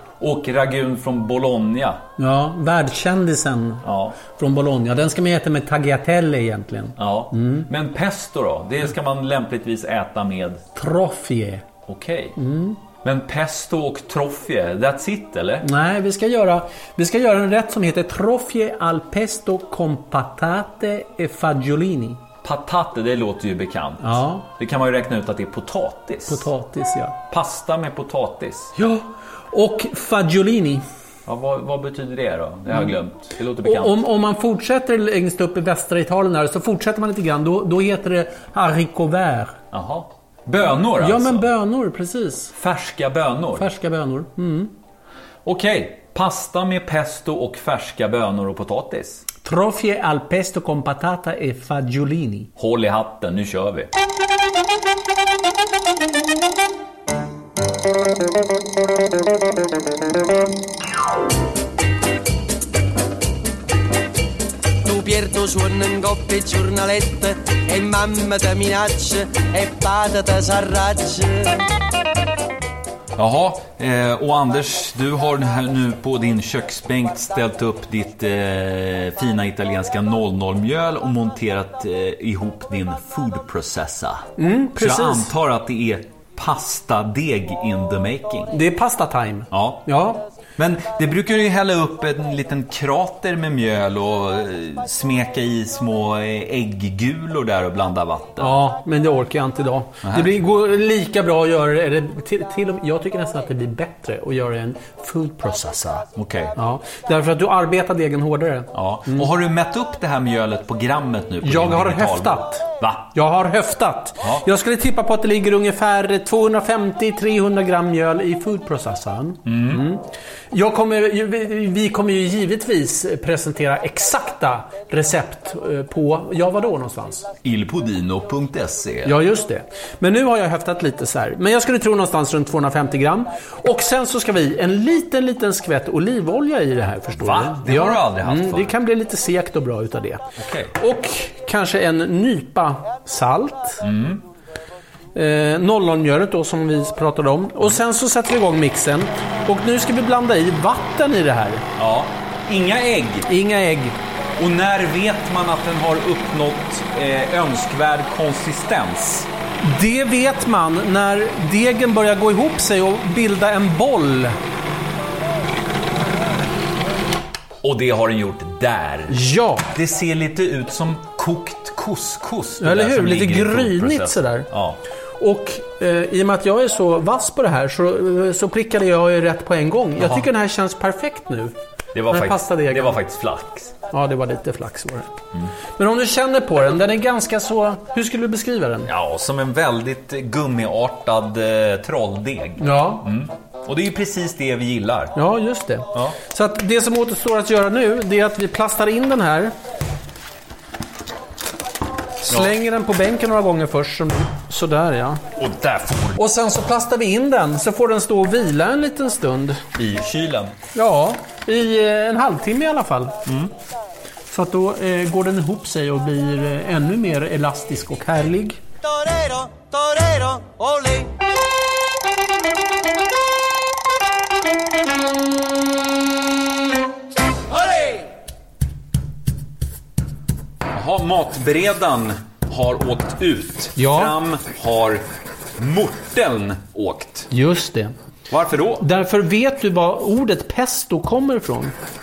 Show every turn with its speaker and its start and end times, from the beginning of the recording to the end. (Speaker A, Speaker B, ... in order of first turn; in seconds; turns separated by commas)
Speaker A: 0.2-2.0, Speaker B: 2.2-7.7, Speaker A: 3.8-4.2, Speaker A: 7.0-10.6, Speaker B: 10.7-11.7, Speaker A: 11.8-12.4, Speaker B: 12.4-12.8, Speaker A: 13.0-15.7, Speaker B: 15.6-22.2, Speaker A: 22.4-26.5, Speaker B: 24.0-24.4, Speaker B: 26.3-27.2, Speaker A: 27.3-28.7, Speaker B: 28.8-30.8, Speaker A: 31.2-34.0, Speaker B: 33.6-39.6, Speaker A: 39.7-41.5, Speaker B: 41.0-42.5, Speaker A: 42.5-43.7, Speaker B: 43.5-44.7, Speaker A: 45.4-49.2, Speaker B: 49.4-52.5, Speaker A: 52.5-53.9, Speaker C: 64.8-71.6, Speaker A: 73.2-88.5, Speaker B: 84.4-85.3, Speaker B: 88.5-90.2, Speaker A: 89.5-89.9, Speaker A: 90.6-98.6, Speaker B: 98.4-109.3, Speaker A: 100.0-100.3, Speaker A: 106.1-106.5, Speaker A: 108.7-113.1, Speaker B: 111.4-127.3, Speaker A: 119.5-119.8, Speaker A: 127.4-129.2, Speaker B: 129.0-140.2, Speaker A: 137.2-138.7, Speaker A: 140.4-140.7, Speaker B: 140.7-143.8, Speaker A: 143.8-144.2, Speaker B: 145.1-151.7, Speaker A: 151.8-153.3, Speaker B: 153.3-154.0, Speaker A: 154.4-159.3, Speaker B: 159.6-164.4, Speaker A: 167.6-174.8, Speaker B: 169.1-169.7, Speaker B: 172.6-174.5, Speaker B: 175.2-181.6, Speaker A: 180.0-180.3, Speaker A: 181.9-183.7, Speaker B: 182.1-183.0, Speaker B: 183.9-185.1, Speaker B: 185.8-188.9, Speaker A: 188.8-195.2, Speaker B: 192.6-193.1, Speaker B: 195.1-199.5, Speaker B: 202.2-205.2, Speaker A: 202.3-202.5, Speaker A: 205.3-206.2, Speaker B: 206.2-209.6, Speaker A: 209.7-210.6, Speaker B: 210.7-213.2, Speaker A: 213.2-213.5, Speaker B: 214.3-218.6, Speaker C: 218.8-221.1, Speaker A: 230.7-237.3, Speaker B: 233.8-234.1, Speaker B: 237.3-237.9, Speaker A: 238.3-238.9, Speaker B: 238.8-241.7